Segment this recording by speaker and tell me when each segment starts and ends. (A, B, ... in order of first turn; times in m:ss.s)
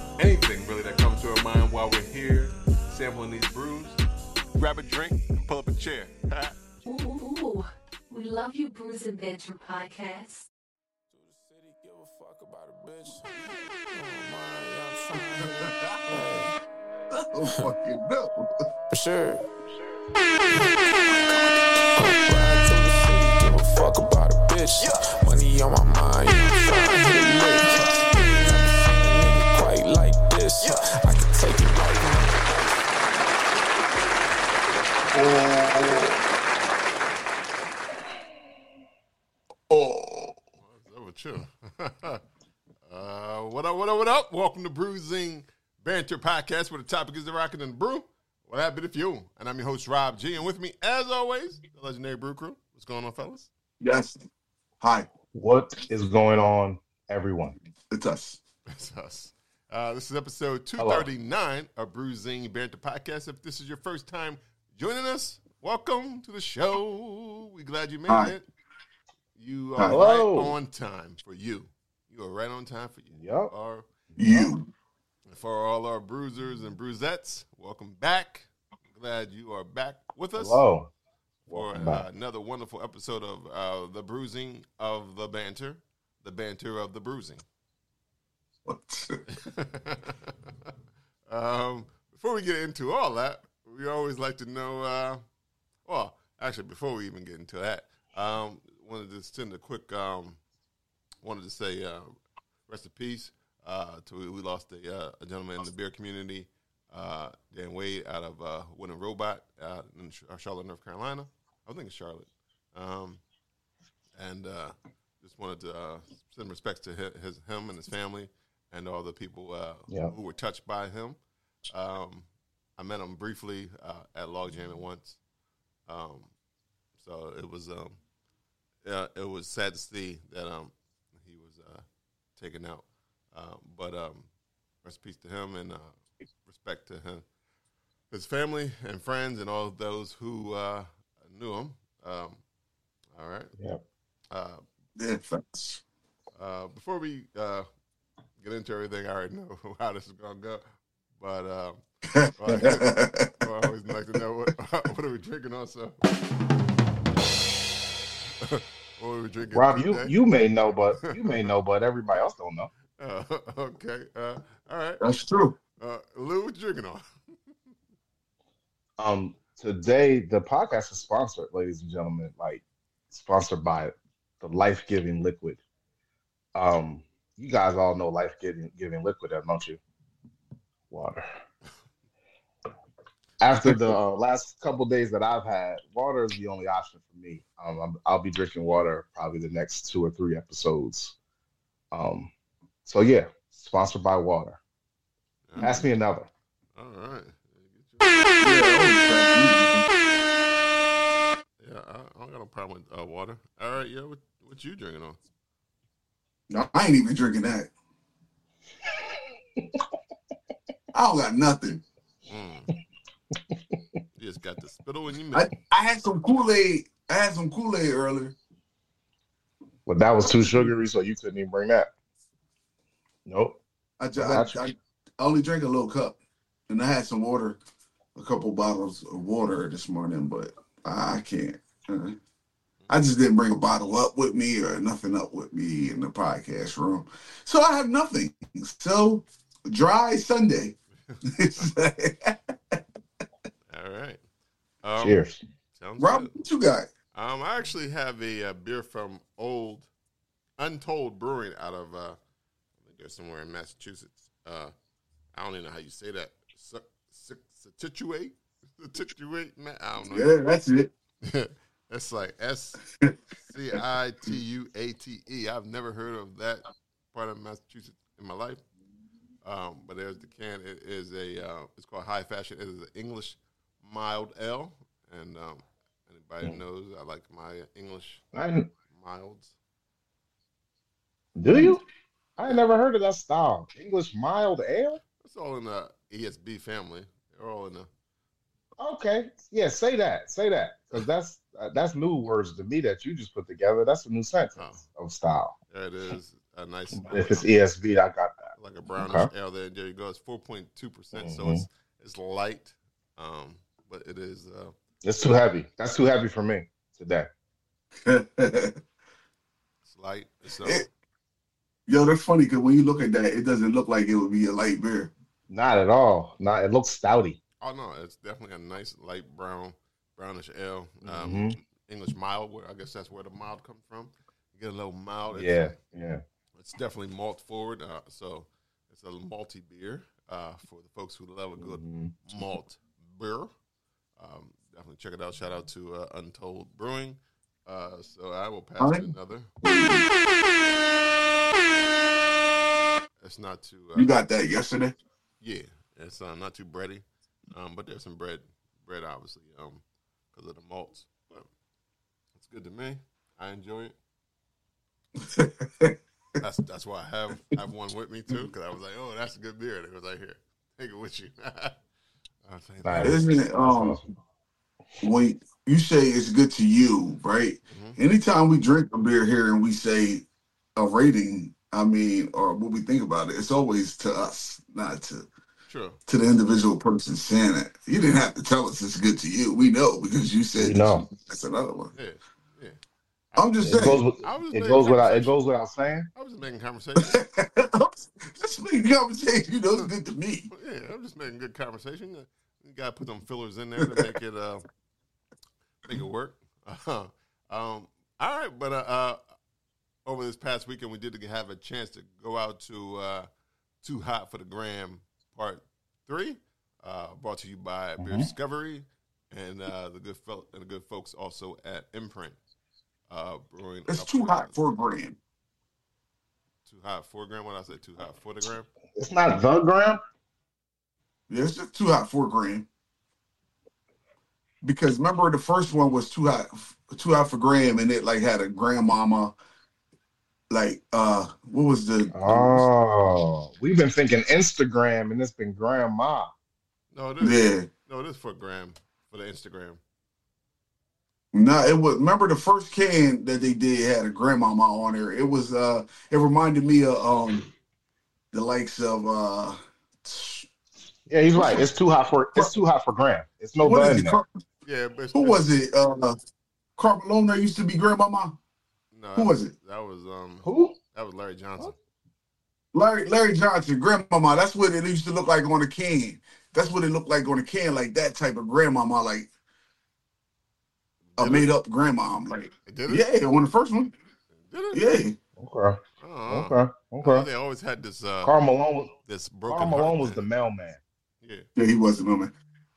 0:00.2-0:04.0 A
0:04.5-0:06.6 A
0:06.9-0:10.5 B
0:11.1-0:13.3 C
0:13.9-0:16.5 C
0:17.3-0:18.5 D
0:18.9-0:19.4 C
0:20.5-0:32.9 C
0:35.1-0:36.2 D
0:39.7-0:40.4 D
0:40.6-0:42.2 A
0:42.8-0:53.5 A
0:53.8-0:54.2 D
0:54.8-0:55.1 D
0:55.3-0:57.6 E
0:57.9-0:58.4 D
0:58.7-1:08.4 A
1:00.8-1:01.1 E
1:08.1-1:08.3 D
1:09.4-1:13.9 A
1:09.8-1:10.0 D
1:09.9-1:10.5 E
1:13.1-1:13.5 E
1:14.1-1:14.5 E
1:14.2-1:14.6 D
1:15.3-1:20.6 A
1:20.4-1:20.9 E
1:21.5-1:22.0 E
1:21.5-1:27.4 A
1:28.6-1:29.2 D
1:29.3-1:30.5 A
1:31.3-1:35.2 A
1:35.8-1:40.4 A
1:41.2-1:42.1 A
1:42.7-1:53.2 A
1:54.2-2:01.2 A
2:01.7-2:02.2 A
2:02.8-2:05.2 A
2:05.9-2:06.3 A
2:07.0-2:08.0 A
2:08.8-2:11.8 A
2:12.4-2:14.3 A
2:14.8-2:17.2 A
2:18.1-2:22.4 A
2:23.1-2:23.5 A
2:24.3-2:24.6 A
2:25.0-2:25.8 D
2:26.3-2:27.6 A
2:28.4-2:30.6 A
2:31.2-2:31.8 A
2:32.1-2:33.3 D
2:32.4-2:36.0 A
2:38.4-2:40.1 A
2:39.5-2:42.7 E
2:41.0-2:41.5 A
2:43.0-2:45.0 A
2:45.0-2:45.6 D
2:45.8-2:47.0 A
2:49.0-2:55.6 E
2:56.5-2:59.8 E
3:00.9-3:01.3 E
3:03.4-3:11.1 E
3:11.9-3:12.3 E
3:12.8-3:14.6 E
3:15.5-3:15.8 A
3:15.6-3:16.3 E
3:16.8-3:18.3 A
3:18.4-3:19.9 D
3:21.6-3:25.2 A
3:26.5-3:27.7 D
3:30.9-3:31.8 D
3:32.3-3:32.7 A
3:33.5-3:34.0 E
3:34.2-3:35.5 A
3:35.3-3:38.4 D
3:39.8-3:41.9 E
3:40.4-3:40.7 D
3:43.2-3:43.6 E
3:44.0-3:46.2 D
3:44.2-3:44.6 E
3:46.7-3:47.6 D
3:48.1-3:52.2 D
3:52.9-4:00.7 D
4:01.1-4:01.6 A
4:01.3-4:02.8 D
4:03.7-4:04.2 A
4:04.8-4:05.2 A
4:05.0-4:05.4 E
4:05.7-4:06.3 A
4:06.0-4:06.9 D
4:07.1-4:09.9 A
4:10.6-4:12.2 A
4:12.8-4:14.7 A
4:15.3-4:20.3 A
4:20.0-4:20.9 D
4:21.2-4:22.8 A
4:23.5-4:28.6 A
4:29.4-4:38.2 A
4:38.3-4:38.7 E
4:38.9-4:39.5 A
4:41.4-4:41.8 E
4:42.4-4:45.0 E
4:45.2-4:47.9 A
4:48.8-4:55.5 E
4:54.6-4:54.8 A
4:55.7-4:57.5 A
4:56.9-4:59.3 E
4:58.6-5:04.7 A
5:01.1-5:01.6 E
5:05.0-5:07.3 E
5:08.0-5:08.8 D
5:09.8-5:10.9 A
5:11.9-5:15.1 D
5:15.5-5:17.4 E
5:17.6-5:25.8 A
5:21.0-5:21.6 E
5:25.3-5:26.2 E
5:26.5-5:33.5 A
5:31.6-5:32.5 E
5:34.2-5:39.5 A
5:38.8-5:39.1 D
5:39.6-5:40.1 D
5:43.2-5:44.1 A
5:44.0-5:45.0 D
5:45.4-5:51.5 A
5:52.4-5:53.9 A
5:55.2-5:56.0 D
5:56.4-6:01.8 A
6:02.4-6:03.3 A
6:02.8-6:04.1 E
6:03.0-6:04.0 D
6:05.0-6:10.2 D
6:07.7-6:08.0 A
6:10.8-6:15.3 D
6:15.7-6:16.0 A
6:16.1-6:21.9 D
6:20.6-6:21.0 E
6:21.9-6:22.8 A
6:23.3-6:25.3 A
6:23.4-6:24.0 D
6:23.6-6:26.1 E
6:26.1-6:27.2 A
6:27.0-6:30.5 D
6:30.5-6:34.6 A
6:33.8-6:34.1 D
6:35.8-6:39.2 A
6:40.0-6:43.3 A
6:43.8-6:52.4 A
6:48.0-6:48.3 E
6:53.1-6:54.5 A
6:53.9-6:55.2 D
6:56.6-6:58.7 A
6:59.0-7:00.0 E
7:01.3-7:02.7 D
7:04.6-7:09.3 D
7:10.5-7:12.7 D
7:12.1-7:16.3 E
7:16.9-7:19.8 A
7:17.2-7:17.7 D
7:21.3-7:27.5 D
7:28.3-7:30.4 D
7:31.1-7:34.2 E
7:31.4-7:31.6 D
7:33.6-7:34.3 D
7:34.6-7:35.4 A
7:35.1-7:36.2 D
7:36.8-7:38.4 D
7:38.9-7:41.7 A
7:39.2-7:39.5 D
7:40.4-7:40.8 E
7:42.7-7:49.3 D
7:51.1-7:51.5 A
7:51.2-7:53.9 D
7:52.7-7:53.1 A
7:54.4-7:54.9 A
7:54.7-7:55.2 D
7:55.4-7:57.3 E
7:56.0-7:58.4 A
7:58.2-7:58.9 E
7:59.0-8:00.2 A
7:59.5-8:00.8 E
8:01.2-8:01.5 A
8:01.6-8:02.3 D